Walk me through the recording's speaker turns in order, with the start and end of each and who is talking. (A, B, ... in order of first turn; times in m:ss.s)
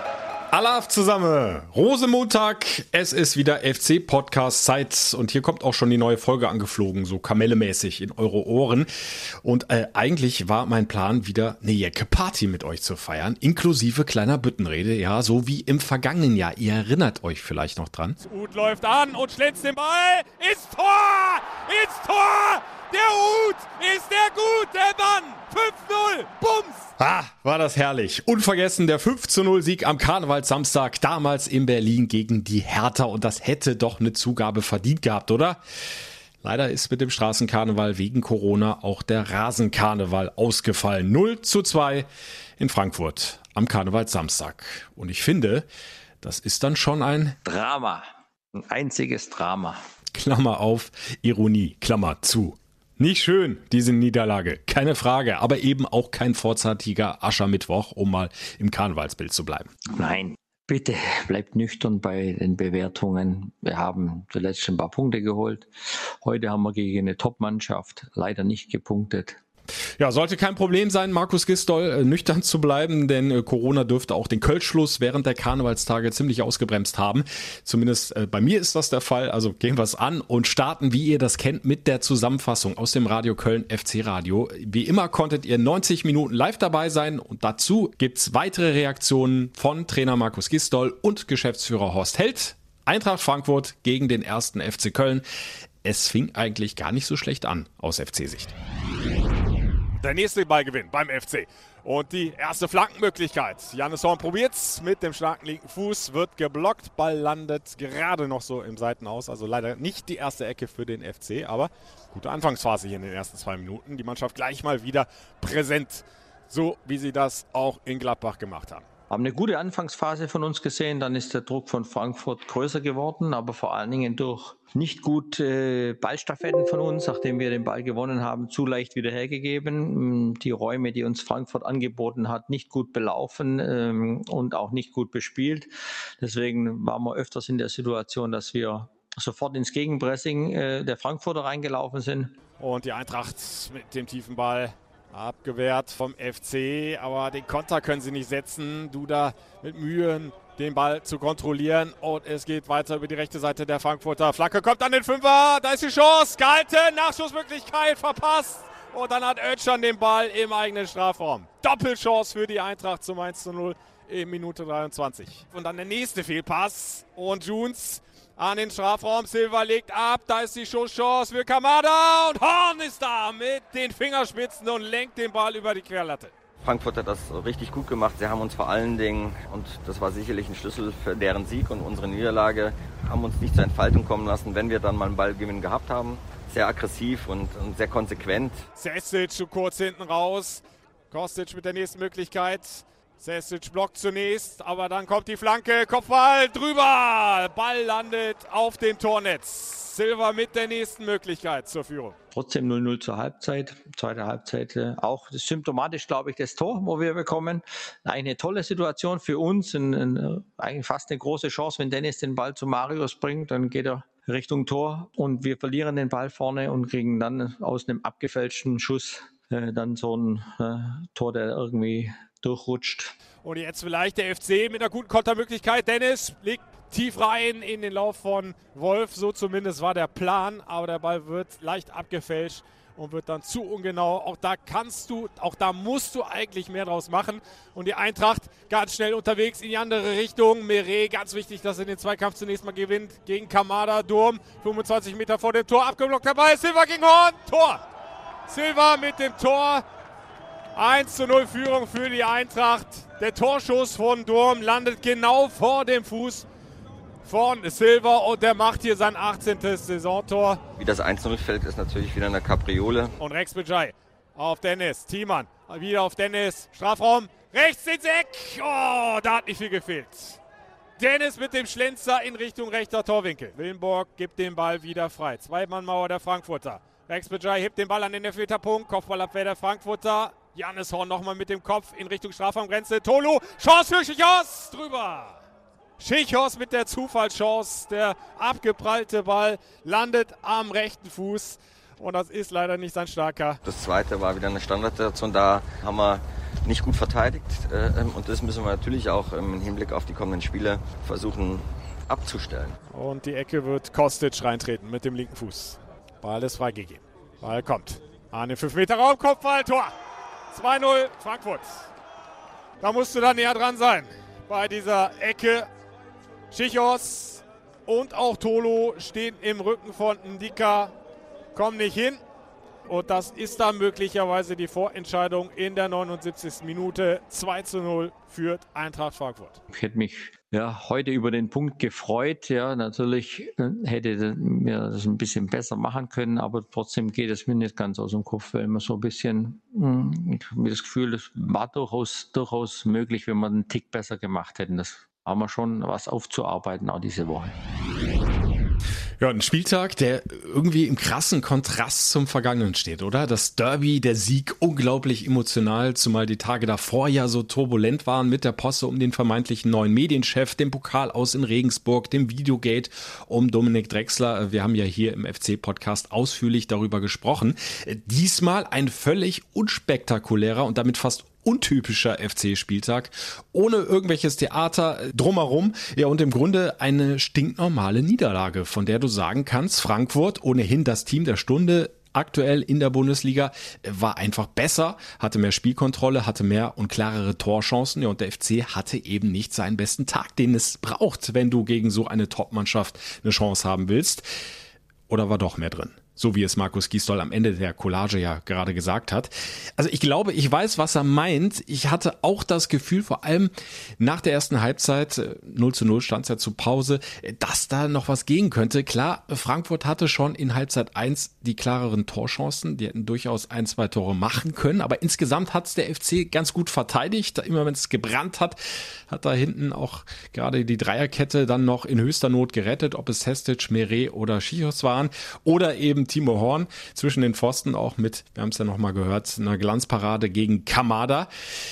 0:00.5-0:18.2 A
0:18.2-0:26.9 B
0:27.0-0:35.6 A
0:36.4-0:42.1 A
0:42.6-0:45.6 A
0:46.2-0:47.4 A
0:47.4-0:49.8 C
0:50.2-0:59.7 A
0:59.9-1:09.4 C
1:10.0-1:35.2 A
1:35.8-1:38.5 A
1:40.0-1:58.8 B
1:59.1-2:22.3 C
2:22.6-2:56.3 B
2:56.6-3:08.6 D
3:08.8-3:22.2 B
3:22.3-3:43.1 C
3:43.4-4:07.8 B
4:08.5-4:09.8 B
4:10.7-4:16.4 B
4:17.2-4:20.6 B
4:20.8-4:23.2 D
4:23.2-4:30.4 B
4:31.0-4:45.4 B
4:46.0-4:53.6 B
4:53.6-5:02.8 D
5:02.9-5:09.9 B
5:10.5-5:11.9 B
5:12.8-5:15.7 B
5:16.5-5:20.9 B
5:21.5-5:22.2 B
5:22.8-5:29.6 B
5:29.7-5:47.5 C
5:49.2-6:34.2 A
6:35.1-7:11.3 A